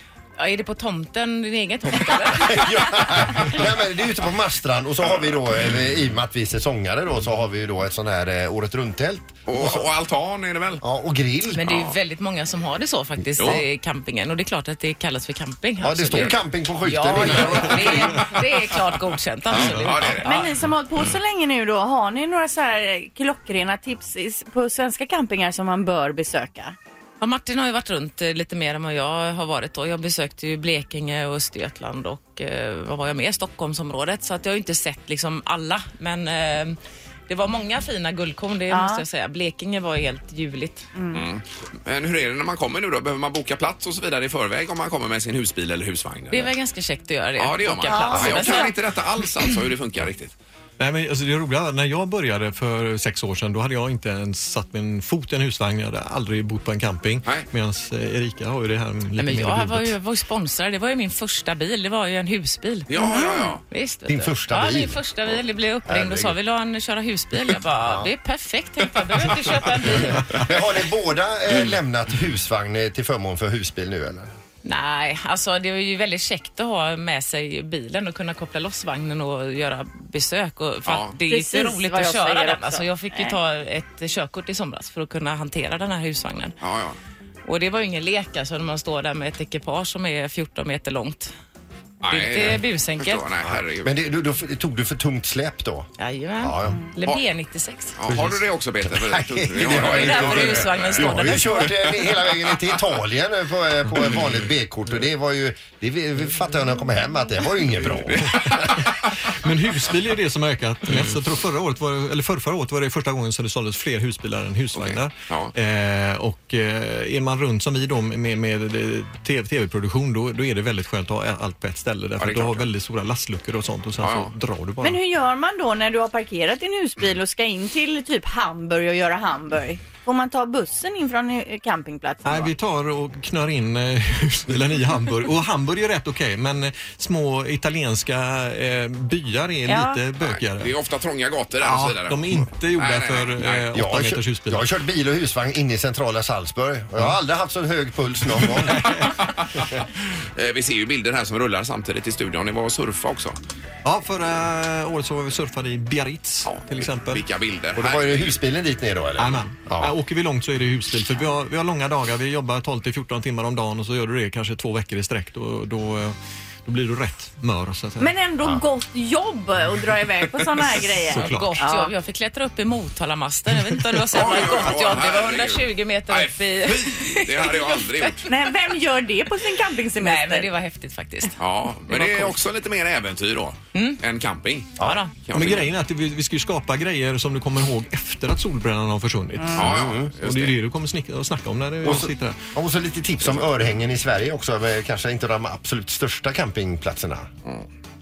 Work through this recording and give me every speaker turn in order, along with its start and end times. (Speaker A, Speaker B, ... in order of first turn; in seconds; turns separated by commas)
Speaker A: 0.4-3.5, Speaker B: 2.3-9.8, Speaker C: 9.4-10.8, Speaker B: 10.8-11.7, Speaker A: 11.5-20.5, Speaker C: 11.7-11.9, Speaker C: 13.4-13.6, Speaker B: 15.8-18.1, Speaker C: 19.5-20.5, Speaker D: 19.6-19.9, Speaker E: 20.2-26.8, Speaker A: 27.2-40.9, Speaker E: 38.7-39.0, Speaker E: 40.9-41.2, Speaker C: 41.1-46.5, Speaker A: 46.3-48.7, Speaker C: 47.4-50.3, Speaker E: 47.8-48.7, Speaker D: 50.8-59.9, Speaker A: 59.2-70.3, Speaker C: 62.9-63.6, Speaker E: 63.0-63.5, Speaker B: 64.0-65.0, Speaker B: 65.8-66.3, Speaker B: 67.8-68.1, Speaker B: 69.8-74.3, Speaker A: 74.6-86.5, Speaker C: 80.8-81.1, Speaker E: 81.3-83.3, Speaker C: 86.6-87.0, Speaker A: 87.4-91.3, Speaker C: 92.0-94.0, Speaker A: 92.1-93.2, Speaker B: 93.8-95.9, Speaker A: 96.0-97.9, Speaker B: 96.4-96.8, Speaker C: 98.0-102.8, Speaker B: 98.9-108.4, Speaker A: 99.7-101.7, Speaker C: 108.1-109.1, Speaker D: 109.4-125.0, Speaker C: 114.7-115.5, Speaker C: 122.2-122.7, Speaker C: 124.0-124.3, Speaker E: 124.8-132.5, Speaker D: 132.2-140.7, Speaker E: 139.7-140.0, Speaker C: 140.2-143.7, Speaker D: 141.6-144.6, Speaker B: 143.7-148.9, Speaker D: 148.6-149.1, Speaker C: 149.0-149.8, Speaker C: 150.3-153.4, Speaker D: 153.8-157.2, Speaker C: 156.4-158.4, Speaker B: 157.8-159.9, Speaker D: 159.2-168.1, Speaker E: 168.0-171.9, Speaker D: 171.0-171.6, Speaker A: 171.1-178.1, Speaker C: 174.1-178.3, Speaker E: 178.3-180.5, Speaker A: 180.0-181.3, Speaker C: 181.4-185.7, Speaker A: 181.9-182.3, Speaker A: 183.7-184.0, Speaker A: 184.8-185.1, Speaker D: 185.3-192.3, Speaker C: 189.5-190.5, Speaker B: 189.7-190.1, Speaker B: 191.8-197.3